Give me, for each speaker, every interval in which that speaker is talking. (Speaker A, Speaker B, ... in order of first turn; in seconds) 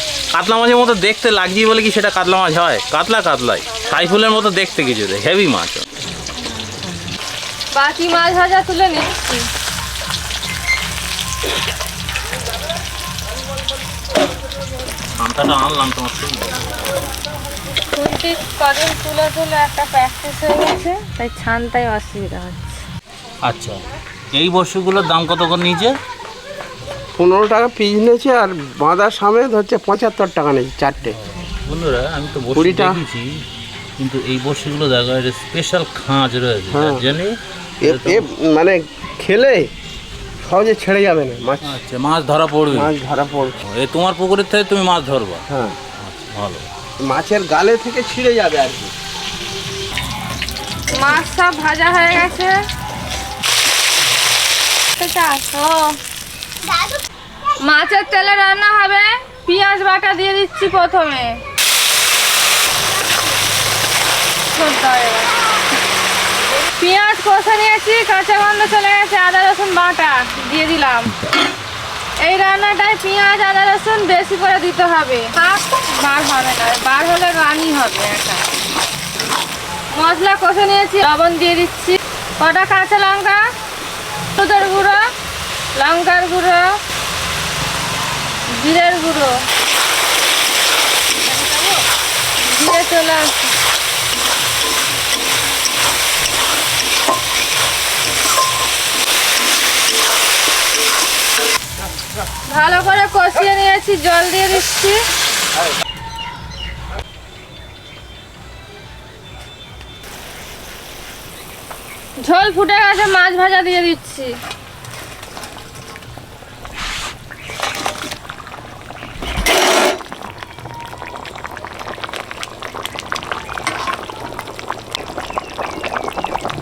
Speaker A: 0.3-5.8, 15.2-16.7, 23.4-23.8, 24.3-25.9, 31.1-33.4, 34.0-38.3, 41.6-42.9, 43.6-45.4, 46.0-46.7
Speaker B: 7.7-9.5, 17.9-22.8, 50.9-52.6, 55.0-56.0, 57.6-61.4, 64.5-65.3, 66.8-71.2, 72.2-78.5, 79.9-83.4, 84.4-85.0, 85.8-86.7, 88.6-89.3, 91.3-91.7, 92.4-93.5, 102.5-105.0, 112.2-114.3
Speaker C: 27.2-31.2, 32.5-33.0, 36.7-37.2, 37.8-39.7, 40.4-41.8, 42.7-43.6, 45.5-45.8, 47.0-48.9